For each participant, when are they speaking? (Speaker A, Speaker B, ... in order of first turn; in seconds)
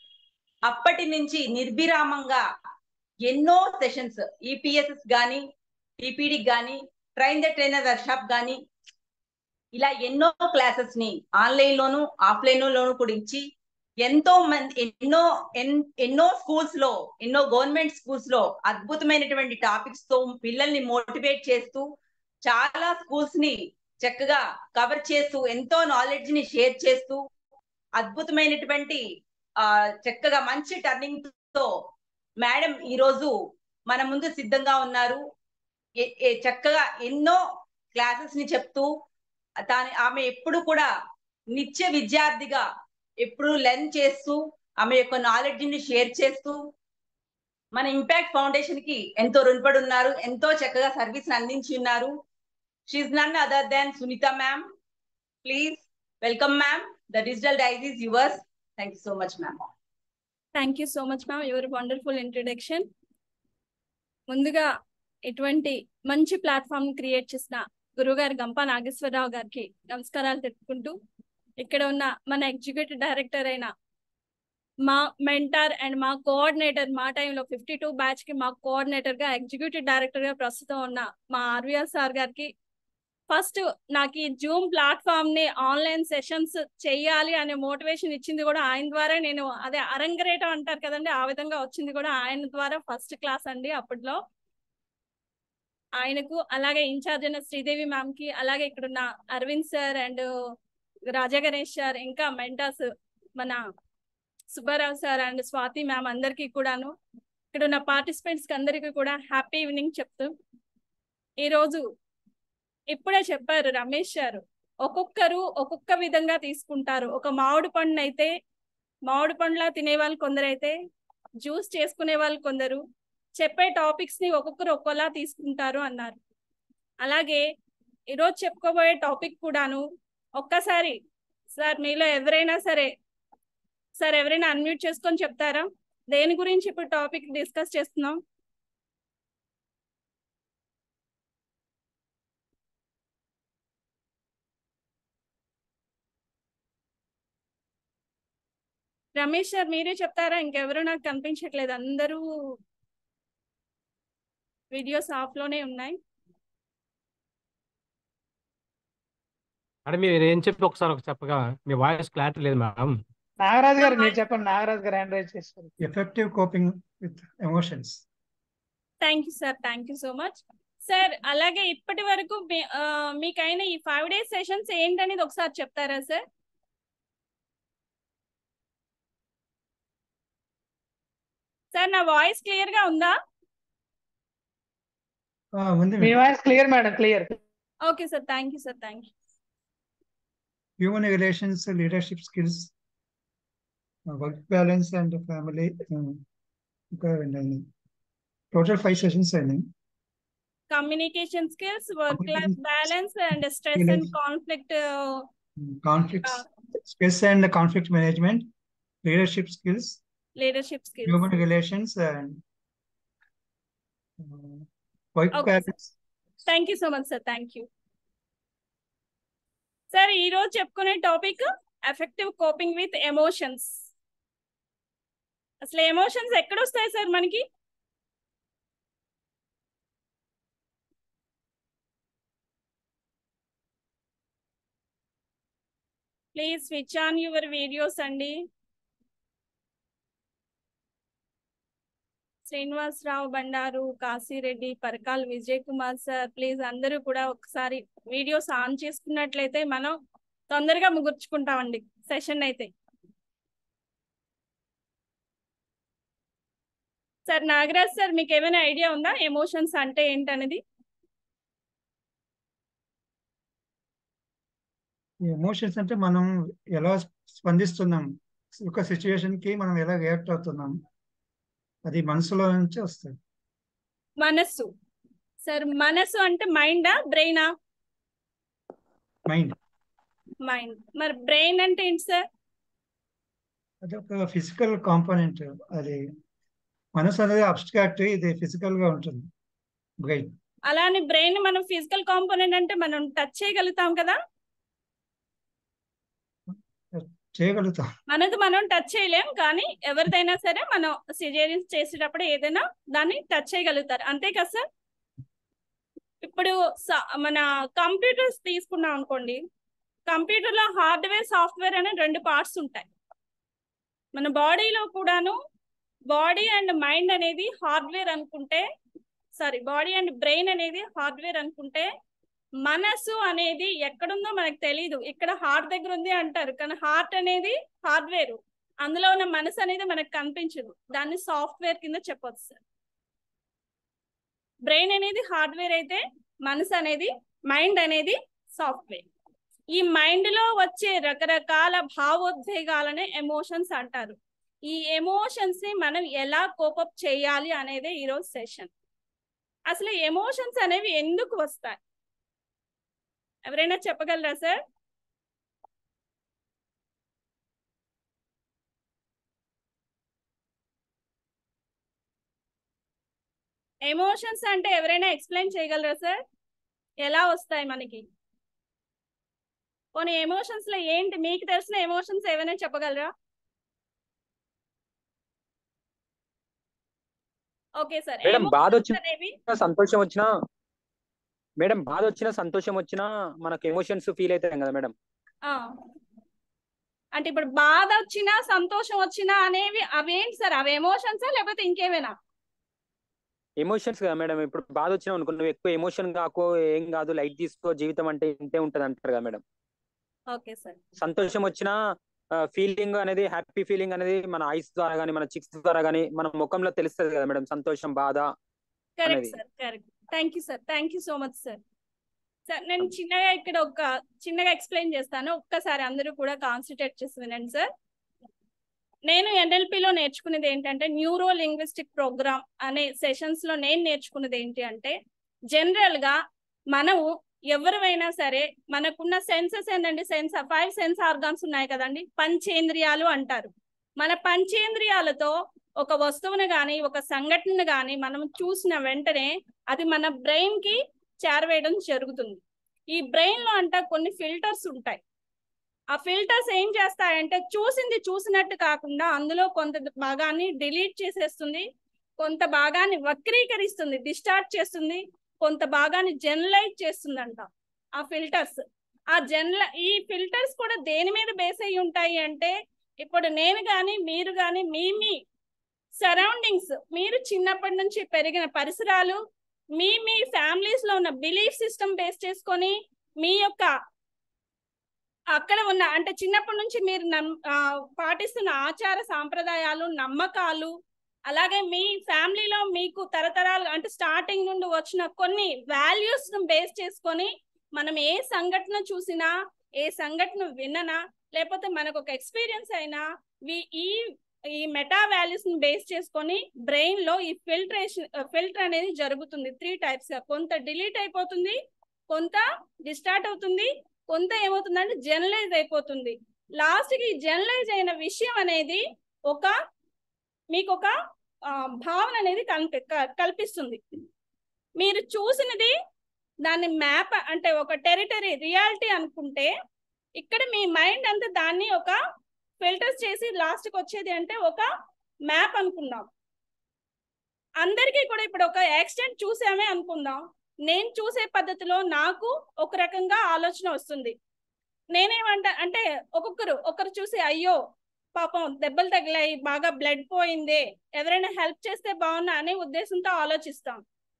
Speaker A: 0.7-2.4, 3.2-5.4, 6.0-8.6, 9.7-13.4, 14.0-21.9, 22.4-27.2, 28.0-29.0, 29.6-31.7, 32.4-33.3, 33.9-35.2, 36.0-37.4, 37.9-38.9, 39.7-40.9, 41.5-42.6, 43.2-46.6, 47.7-52.1, 52.9-54.6, 55.4-59.6
Speaker B: 60.5-62.9, 64.3-64.7, 65.2-71.0, 71.6-73.7, 74.9-82.5, 83.3-94.2, 96.0-100.2, 101.1-103.6, 104.5-106.9, 107.5-110.3, 111.4-111.8, 112.9-118.3, 119.1-120.7, 121.4-122.8, 123.4-126.2, 127.0-127.4, 128.1-129.8, 130.4-131.0, 131.6-132.9, 134.0-138.2, 149.2-152.2, 154.7-156.0, 163.8-164.2, 169.0-176.2, 181.7-183.2, 187.8-189.1, 200.7-205.2, 210.4-211.2, 215.3-215.7, 216.5-217.7, 219.9-223.8, 225.6-227.4, 236.3-238.3, 242.5-249.9, 250.5-252.7, 257.3-260.6, 274.2-274.7, 275.4-277.5, 280.4-282.2, 290.7-294.2, 298.1-304.6, 306.2-309.4, 310.1-312.9, 314.1-315.3, 316.1-318.6, 319.4-321.9, 322.6-332.6, 334.6-339.0, 339.7-344.2, 344.7-348.7, 349.7-351.8, 353.4-354.6, 363.9-366.2, 367.0-368.0, 369.9-373.1, 377.8-379.3, 385.4-385.7, 387.1-392.1, 400.3-400.8, 409.0-411.6, 412.5-417.7, 419.1-424.9, 425.5-426.2, 426.7-442.4, 442.9-445.0, 445.9-451.6, 452.2-457.5, 458.0-465.2, 466.0-469.2, 469.8-473.7, 475.3-480.7, 481.3-501.6, 502.1-509.5, 510.5-510.9, 511.5-513.8, 514.8-515.7, 516.5-519.5, 520.2-522.0, 522.6-524.6, 525.3-526.1, 527.6-534.1, 534.9-537.6, 538.1-543.8
Speaker C: 159.9-162.9
Speaker D: 163.4-165.7, 186.0-187.3
Speaker E: 165.8-168.0, 185.5-186.2, 190.8-192.7, 194.1-196.2, 196.9-197.7, 198.5-199.7, 202.1-202.6, 203.7-204.1, 205.6-208.5, 209.0-210.0, 211.1-212.4, 214.2-215.9, 265.2-270.8, 271.8-273.2, 279.3-279.6, 283.8-286.1, 286.9-289.3, 290.0-290.3, 296.9-297.9
Speaker F: 378.2-379.0, 379.5-380.3, 381.6-384.9, 393.6-399.4, 401.0-401.8, 402.4-408.3, 409.1-409.3